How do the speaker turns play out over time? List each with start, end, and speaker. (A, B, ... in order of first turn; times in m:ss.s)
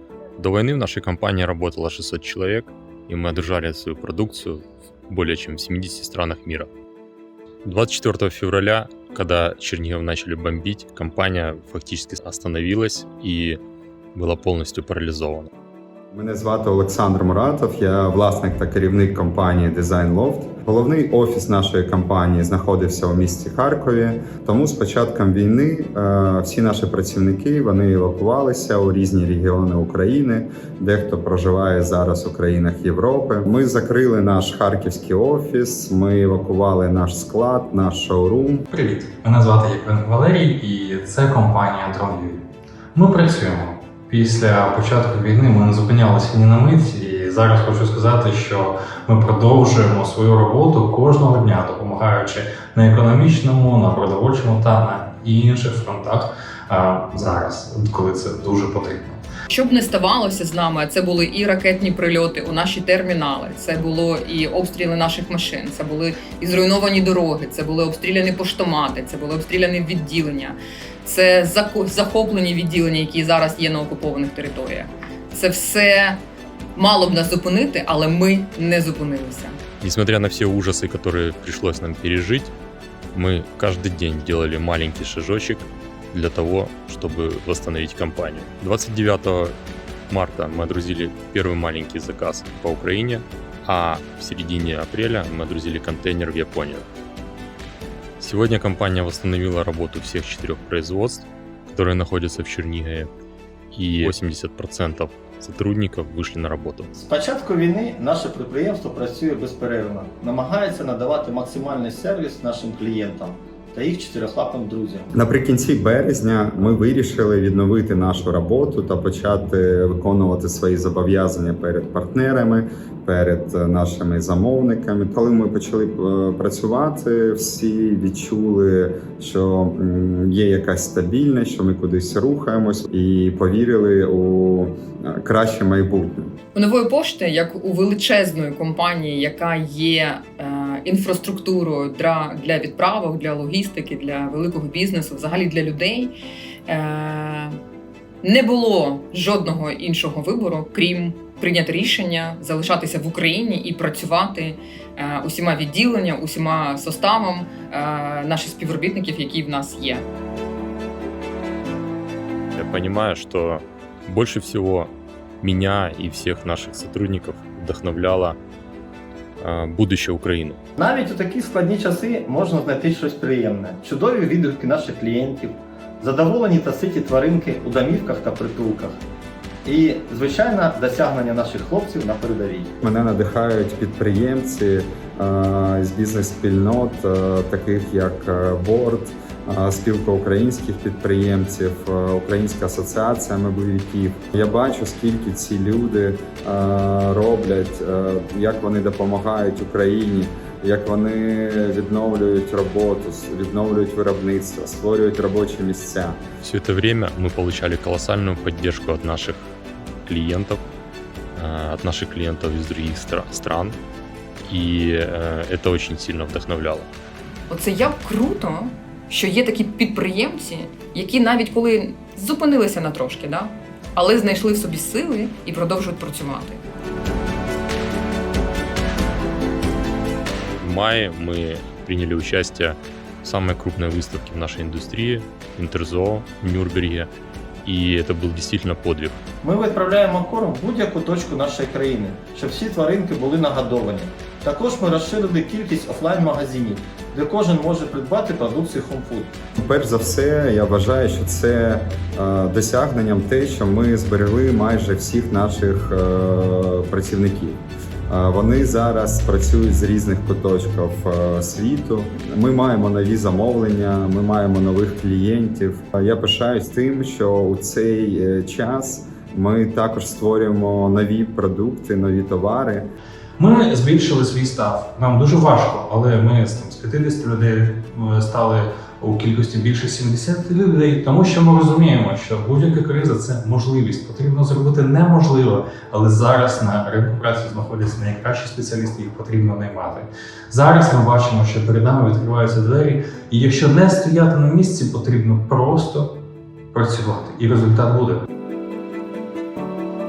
0:00.4-0:06.7 A
0:07.6-0:13.6 A
0:14.2-0:15.5 A
0:16.1-0:38.6 B
0:38.7-0:42.4 C
0:43.0-0:59.2 C
0:59.5-1:16.2 D
1:16.8-1:19.6 D
1:19.8-1:22.5 A
1:23.1-1:29.6 A
1:30.1-1:36.9 A
1:38.2-1:43.1 A
1:43.7-1:46.9 A
1:47.0-1:55.1 E
1:55.1-2:16.3 B
2:16.5-2:26.2 D
2:26.7-2:27.6 D
2:28.2-2:40.1 D
2:42.6-2:48.4 A
2:49.4-2:50.6 A
2:50.8-2:59.0 E
2:59.6-3:02.7 E
3:02.8-3:26.2 B
3:26.4-3:29.5 A
3:30.0-3:30.6 A
3:31.4-3:33.8 A
3:34.5-3:36.9 A
3:37.5-3:46.6 D
3:50.6-3:57.1 A
3:57.6-3:59.2 A
3:59.4-4:09.3 E
4:09.6-4:32.9 B
4:33.4-4:56.2 C
4:56.7-4:58.2 C